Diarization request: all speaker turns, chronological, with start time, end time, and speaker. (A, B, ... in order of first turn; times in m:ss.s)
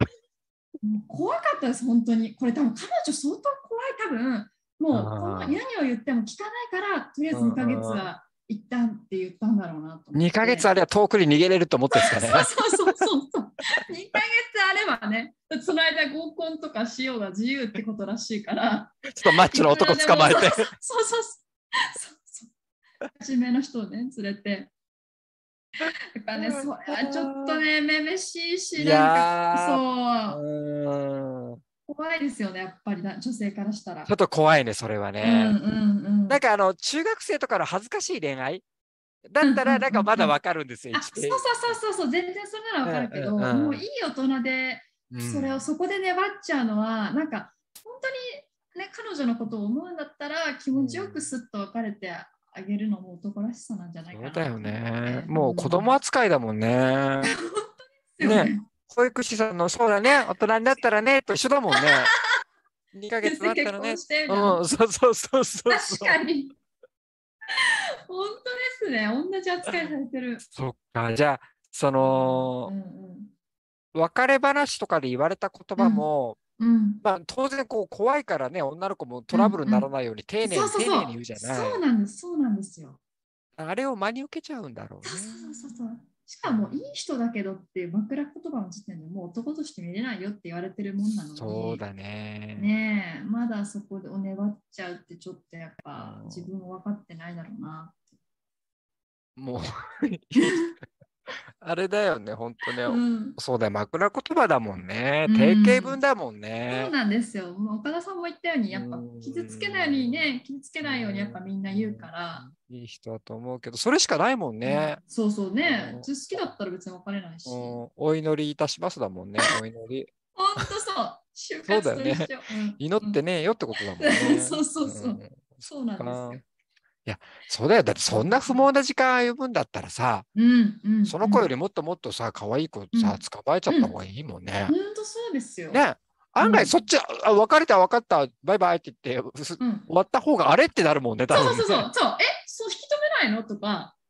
0:00.8-0:10.7 A
0:04.9-0:05.6 B
0:07.3-0:08.1 B
0:10.1-0:12.6 B
0:11.9-0:22.5 A
0:19.1-0:20.7 B
0:23.2-0:24.7 A
0:26.1-0:30.4 A
0:26.3-0:27.6 B
0:28.8-0:31.6 B
0:31.9-0:34.1 A
0:34.1-0:35.6 B
0:35.2-0:36.4 A
0:36.3-0:38.6 B
0:39.2-0:41.8 B
0:39.4-0:40.3 A
0:40.9-0:56.0 A
0:42.8-0:43.8 B
0:45.1-0:45.6 B
0:50.7-0:51.3 B
0:54.1-0:57.3 B
0:57.2-0:58.7 A
0:58.2-1:02.1 B
1:01.7-1:02.1 A
1:02.9-1:06.2 B
1:03.2-1:04.6 A
1:05.7-1:06.5 A
1:07.5-1:10.4 A
1:09.6-1:12.7 B
1:12.0-1:13.3 A
1:13.9-1:16.4 B
1:15.8-1:16.1 A
1:16.6-1:17.0 A
1:17.0-1:21.8 B
1:19.3-1:19.9 A
1:20.4-1:23.0 A
1:23.6-1:25.6 B
1:25.0-1:31.8 A
1:26.4-1:26.8 B
1:31.4-1:32.7 B
1:32.6-1:38.0 A
1:35.9-1:36.5 B
1:39.4-1:40.6 B
1:40.4-1:40.7 A
1:41.6-1:46.9 B
1:42.8-1:43.4 A
1:45.2-1:46.0 A
1:46.7-1:52.4 A
1:48.7-1:55.0 B
1:54.6-1:57.8 A
1:55.6-1:56.5 B
1:57.4-2:00.7 B
2:00.4-2:03.2 A
2:01.7-2:06.4 B
2:03.8-2:06.4 A
2:07.0-2:10.3 B
2:08.1-2:08.7 A
2:10.3-2:11.5 A
2:11.0-2:14.7 B
2:12.9-2:13.9 A
2:14.7-2:15.8 A
2:15.7-2:21.9 B
2:16.4-2:16.8 A
2:19.6-2:19.9 A
2:21.3-2:24.0 A